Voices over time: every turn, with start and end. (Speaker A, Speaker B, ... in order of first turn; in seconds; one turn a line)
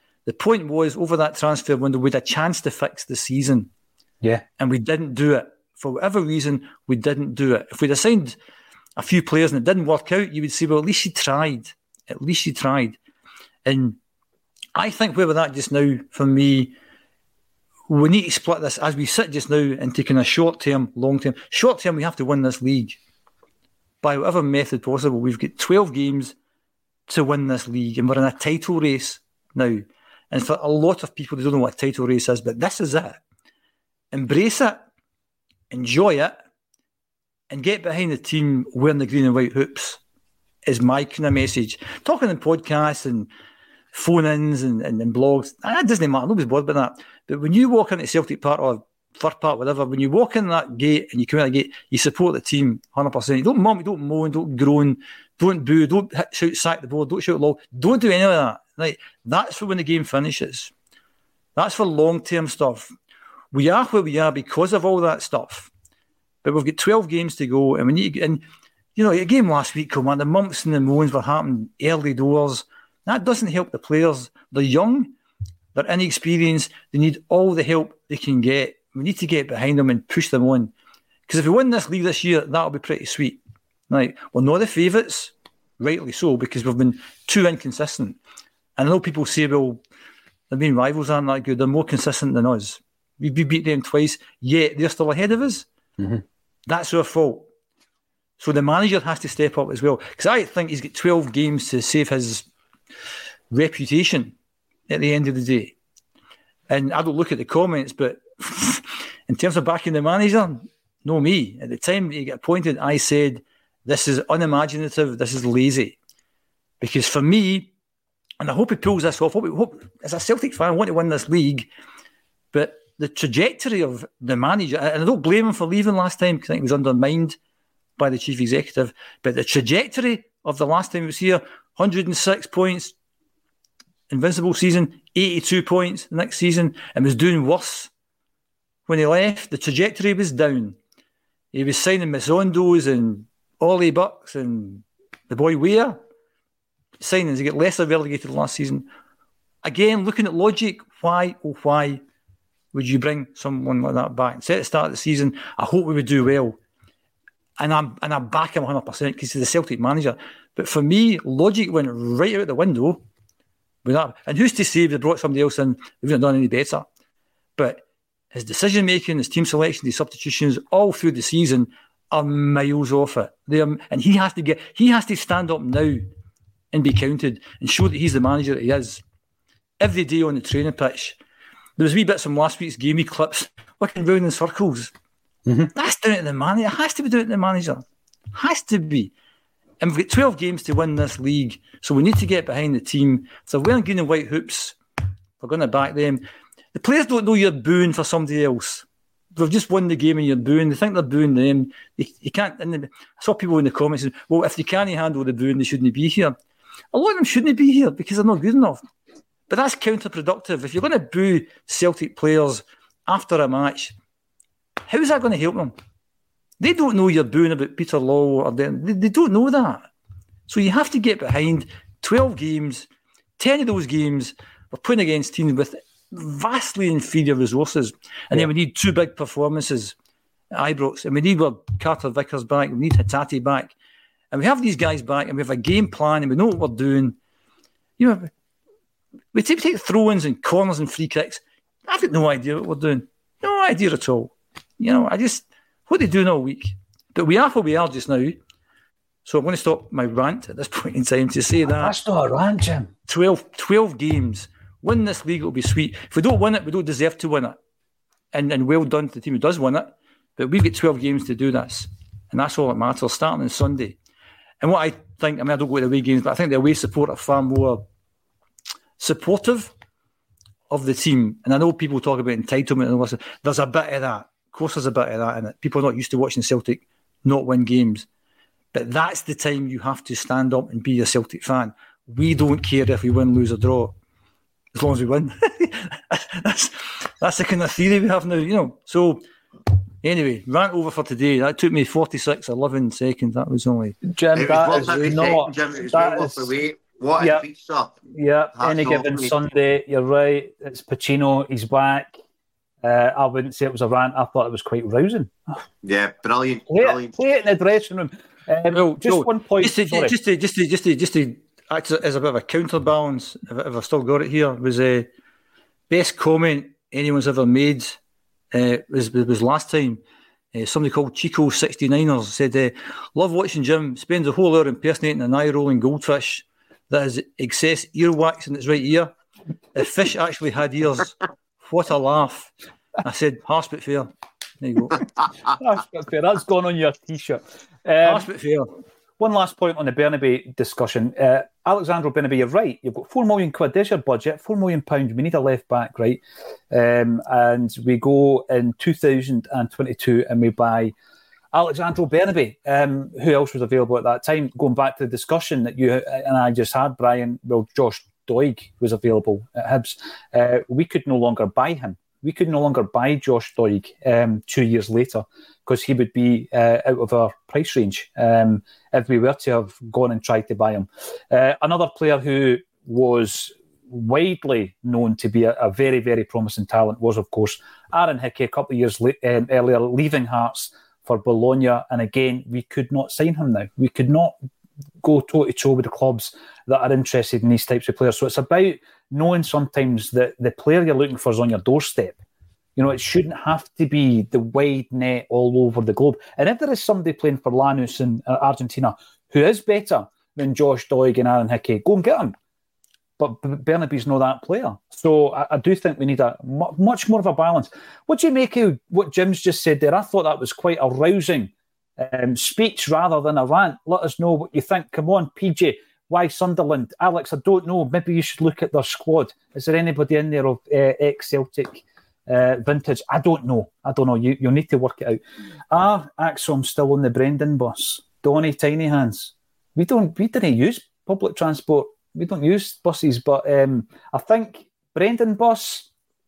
Speaker A: 0.2-3.7
Speaker A: 4.6-8.4
Speaker A: 9.0-13.0
Speaker A: 13.6-14.0
Speaker A: 14.7-16.7
Speaker A: 17.9-23.0
Speaker A: 24.0-26.3
Speaker A: 27.1-33.2
Speaker A: 34.1-34.8
Speaker A: 35.7-36.4
Speaker A: 37.5-40.0
Speaker A: 40.6-43.3
Speaker A: 43.9-60.7
Speaker A: 61.5-62.9
Speaker A: 63.5-65.7
Speaker A: 66.4-68.4
Speaker A: 69.0-75.1
Speaker A: 75.7-80.7
Speaker A: 81.3-88.2
Speaker A: 88.8-89.8
Speaker A: 90.5-95.7
Speaker A: 96.7-97.5
Speaker A: 98.4-102.5
Speaker A: 103.5-104.3
Speaker A: 104.9-105.7
Speaker A: 106.7-116.0
Speaker A: 116.8-117.7
Speaker A: 118.4-121.7
Speaker A: 122.5-127.4
Speaker A: 128.0-132.9
Speaker A: 134.1-137.9
Speaker A: 138.9-140.8
Speaker A: 141.5-146.0
Speaker A: 147.0-148.9
Speaker A: 149.6-152.0
Speaker A: 152.7-156.6
Speaker A: 157.6-163.0
Speaker A: 163.8-166.9
Speaker A: 167.6-176.1
Speaker A: 176.7-179.0
Speaker A: 179.8-181.2
Speaker A: 181.8-184.9
Speaker B: 185.5-185.7
Speaker A: 185.7-189.1
Speaker A: 189.8-194.8
Speaker A: 195.4-206.3
Speaker A: 206.9-208.8
Speaker A: 209.5-213.9
Speaker A: 214.9-215.7
Speaker A: 216.6-219.9
Speaker A: 220.5-229.9
Speaker A: 230.5-233.7
Speaker A: 234.3-237.2
Speaker A: 238.0-238.3
Speaker A: 239.3-248.4
Speaker A: 249.2-251.9
Speaker B: 251.6-252.9
Speaker A: 253.1-257.6
Speaker A: 258.3-264.0
Speaker A: 264.6-267.8
Speaker A: 269.0-269.7
Speaker A: 270.7-278.1
Speaker A: 278.7-283.9
Speaker A: 284.7-289.2
Speaker A: 290.0-294.0
Speaker B: 294.1-296.5
Speaker C: 294.3-298.0
Speaker B: 297.2-297.4
Speaker B: 298.1-302.2
Speaker C: 298.6-299.4
Speaker B: 302.8-305.3
Speaker C: 305.8-307.1
Speaker B: 306.7-310.1
Speaker A: 308.7-315.1
Speaker A: 315.9-318.0
Speaker A: 318.5-320.0
Speaker A: 320.5-329.1
Speaker A: 329.7-332.5
Speaker A: 333.0-335.0
Speaker B: 335.5-338.3
Speaker A: 338.0-338.7
Speaker B: 339.2-350.9
Speaker B: 351.5-384.4
Speaker B: 385.0-392.2
Speaker B: 392.8-402.3
Speaker B: 403.2-425.2
Speaker B: 425.7-435.9